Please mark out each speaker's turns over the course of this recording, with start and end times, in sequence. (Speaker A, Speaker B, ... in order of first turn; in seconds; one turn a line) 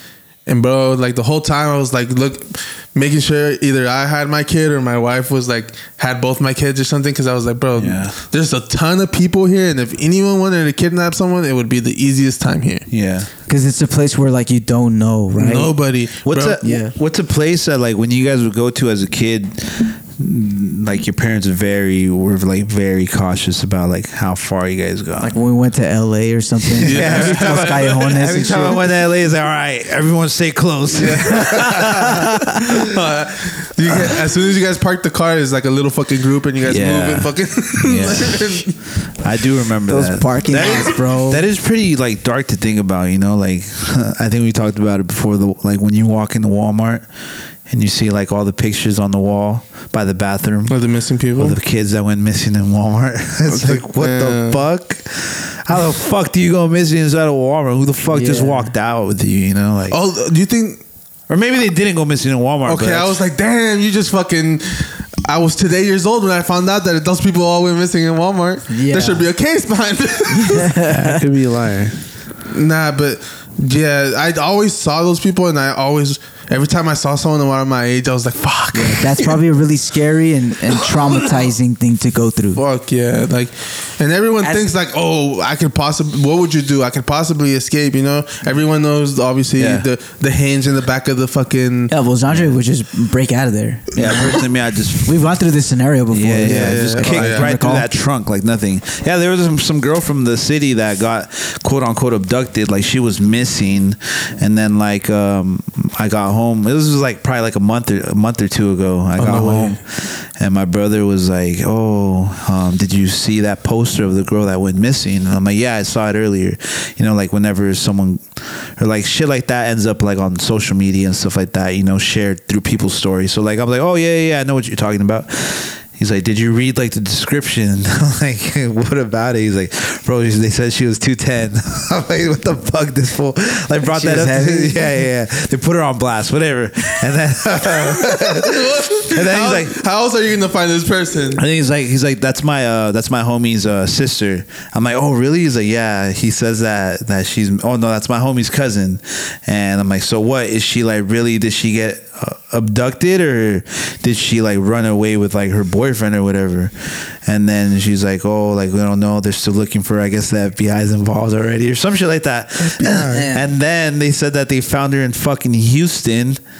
Speaker A: 0.5-12.9
Speaker B: 7.8-8.2
Speaker B: 12.9-13.3
Speaker C: 13.5-15.7
Speaker A: 15.3-16.6
Speaker B: 16.2-25.3
Speaker C: 16.6-16.9
Speaker C: 25.2-28.8
Speaker A: 26.8-28.0
Speaker B: 26.8-32.8
Speaker A: 30.9-38.8
Speaker C: 32.0-32.4
Speaker B: 36.6-38.6
Speaker B: 39.2-47.0
Speaker C: 39.9-41.4
Speaker B: 47.7-50.8
Speaker A: 50.7-51.6
Speaker B: 51.4-60.0
Speaker A: 53.5-54.6
Speaker C: 58.1-58.7
Speaker A: 59.9-60.8
Speaker B: 61.3-63.2
Speaker A: 62.6-70.7
Speaker C: 68.7-69.2
Speaker C: 70.4-71.2
Speaker B: 70.9-72.0
Speaker A: 72.5-79.4
Speaker C: 78.7-82.6
Speaker A: 82.5-91.9
Speaker C: 84.4-84.7
Speaker B: 89.6-89.9
Speaker C: 91.9-94.4
Speaker B: 93.9-95.2
Speaker C: 95.0-97.9
Speaker B: 96.1-139.8
Speaker A: 96.4-97.5
Speaker A: 109.2-109.8
Speaker C: 133.8-134.8
Speaker A: 137.9-141.4
Speaker B: 141.3-166.4
Speaker A: 162.7-163.3
Speaker C: 163.0-163.4